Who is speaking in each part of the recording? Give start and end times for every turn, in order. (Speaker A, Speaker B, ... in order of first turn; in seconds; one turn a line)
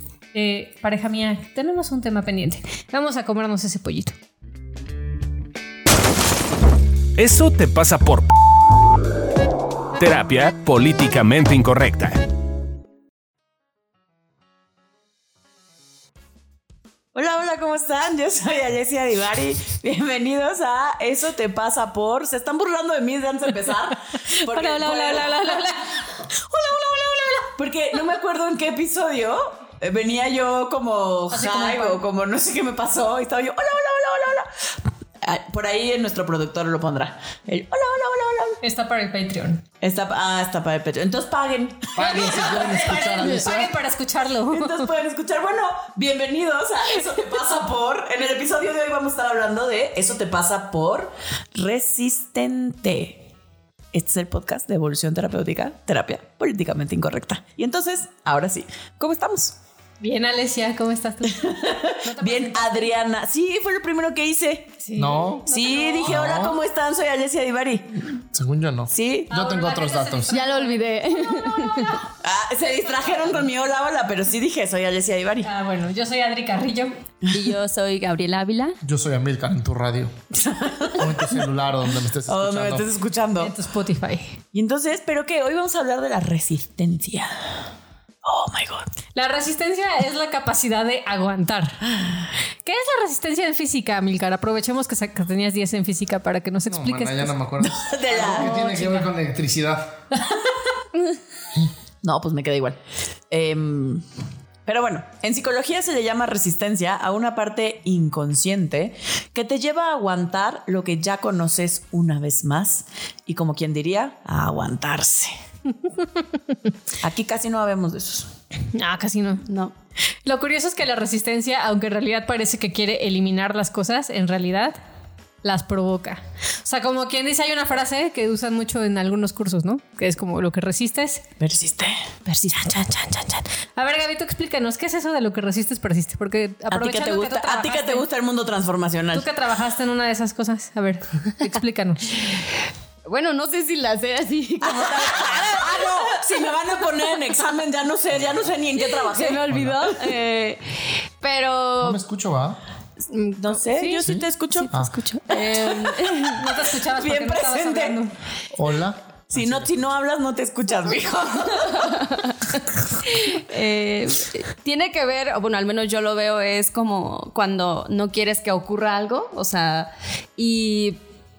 Speaker A: 0.3-4.2
Speaker B: 7.2-8.3
Speaker B: 9.9-12.2
Speaker C: 17.1-25.7
Speaker A: 24.3-27.5
Speaker C: 27.6-34.5
Speaker A: 31.3-32.0
Speaker C: 35.2-38.6
Speaker A: 38.6-39.6
Speaker C: 39.8-43.5
Speaker D: 41.9-43.7
Speaker A: 42.0-44.9
Speaker C: 44.5-53.3
Speaker C: 53.9-59.5
Speaker A: 60.0-62.9
Speaker C: 61.3-64.8
Speaker A: 64.8-66.2
Speaker D: 65.0-65.5
Speaker C: 65.5-68.0
Speaker D: 66.0-66.6
Speaker D: 68.3-70.3
Speaker C: 68.9-69.3
Speaker A: 69.3-71.8
Speaker E: 70.3-72.0
Speaker C: 72.2-75.5
Speaker A: 75.4-76.9
Speaker E: 77.3-78.8
Speaker D: 78.8-80.1
Speaker C: 80.3-81.3
Speaker D: 81.0-82.8
Speaker C: 82.2-83.5
Speaker A: 83.4-84.4
Speaker C: 84.5-87.5
Speaker C: 88.2-88.9
Speaker A: 89.1-91.8
Speaker C: 92.0-92.3
Speaker A: 92.6-97.3
Speaker D: 96.7-100.0
Speaker C: 97.6-98.5
Speaker A: 98.2-99.1
Speaker C: 102.0-102.8
Speaker C: 103.3-104.0
Speaker C: 104.7-115.3
Speaker C: 117.0-118.3
Speaker A: 118.7-119.5
Speaker E: 119.5-119.7
Speaker A: 120.2-124.8
Speaker A: 125.4-131.2
Speaker C: 131.4-132.1
Speaker A: 132.3-138.0
Speaker C: 136.7-139.3
Speaker A: 139.1-142.1
Speaker E: 143.0-146.1
Speaker C: 144.6-150.2
Speaker E: 148.8-152.0
Speaker D: 149.5-149.8
Speaker D: 151.8-152.6
Speaker E: 153.1-153.6
Speaker C: 153.4-154.8
Speaker A: 153.7-154.0
Speaker D: 154.0-154.9
Speaker E: 154.5-156.4
Speaker C: 155.3-156.2
Speaker A: 156.3-158.1
Speaker C: 156.9-158.0
Speaker D: 158.5-159.7
Speaker C: 159.3-162.0
Speaker E: 161.5-171.0